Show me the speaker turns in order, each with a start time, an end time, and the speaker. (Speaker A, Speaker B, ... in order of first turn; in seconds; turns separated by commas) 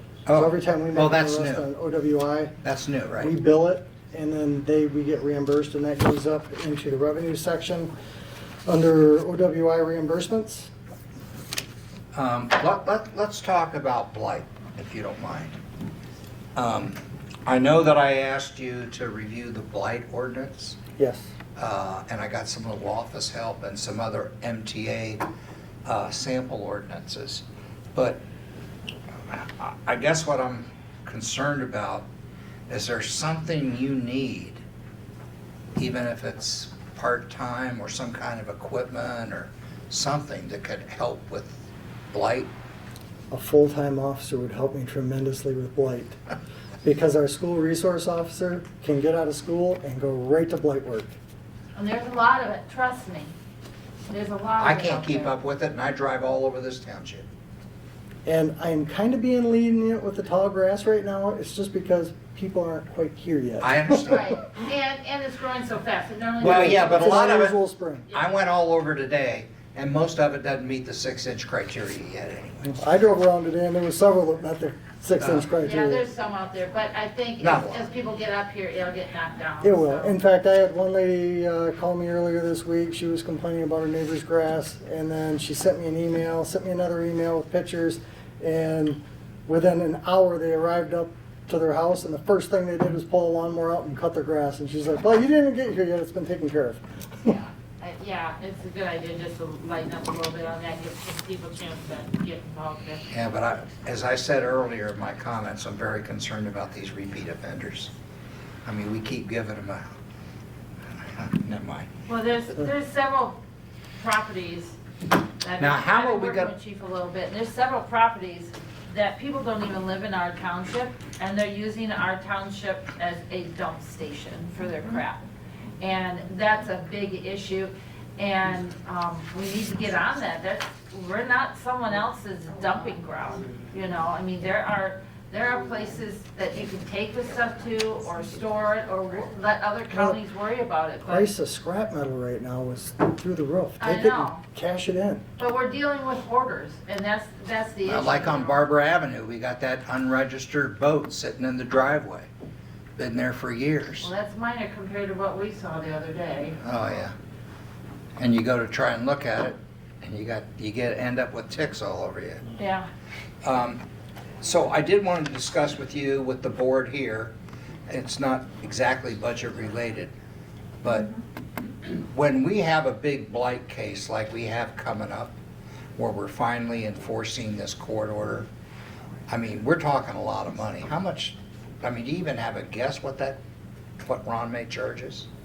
Speaker A: 0.3-1.6, Speaker B: 0.3-2.6, Speaker A: 2.6-3.3, Speaker B: 3.2-7.9, Speaker B: 8.7-10.7, Speaker A: 12.1-15.6, Speaker A: 16.6-20.8, Speaker B: 21.0-21.3, Speaker A: 21.6-25.2, Speaker A: 25.9-28.2, Speaker A: 29.3-32.1, Speaker A: 32.7-34.6, Speaker A: 35.8-42.5, Speaker B: 43.3-46.2, Speaker B: 46.8-51.2, Speaker C: 51.8-53.3, Speaker C: 54.1-55.3, Speaker A: 54.6-57.3, Speaker B: 58.3-64.2, Speaker A: 63.6-64.3, Speaker C: 64.1-67.3, Speaker A: 66.4-67.6, Speaker B: 66.4-68.1, Speaker A: 68.1-72.8, Speaker B: 72.7-76.1, Speaker A: 75.2-75.5, Speaker C: 75.6-80.2, Speaker A: 77.4-77.8, Speaker B: 79.6-97.3, Speaker C: 97.2-103.1, Speaker A: 103.1-107.9, Speaker A: 108.7-110.0, Speaker A: 111.0-111.9, Speaker C: 112.1-113.4, Speaker C: 114.0-114.8, Speaker C: 115.4-125.2, Speaker A: 115.6-116.5, Speaker C: 125.8-141.3, Speaker B: 139.9-140.2, Speaker B: 141.1-145.2, Speaker C: 143.8-144.4, Speaker C: 145.4-148.6, Speaker A: 147.9-152.3, Speaker A: 153.0-154.1, Speaker C: 154.0-156.6, Speaker A: 156.6-157.2, Speaker A: 158.2-162.4, Speaker C: 162.6-162.9, Speaker A: 163.4-163.8, Speaker A: 164.4-167.3, Speaker A: 167.9-170.1, Speaker A: 170.8-171.1, Speaker A: 171.9-175.4, Speaker A: 176.0-178.5, Speaker A: 179.3-183.4, Speaker A: 184.0-185.3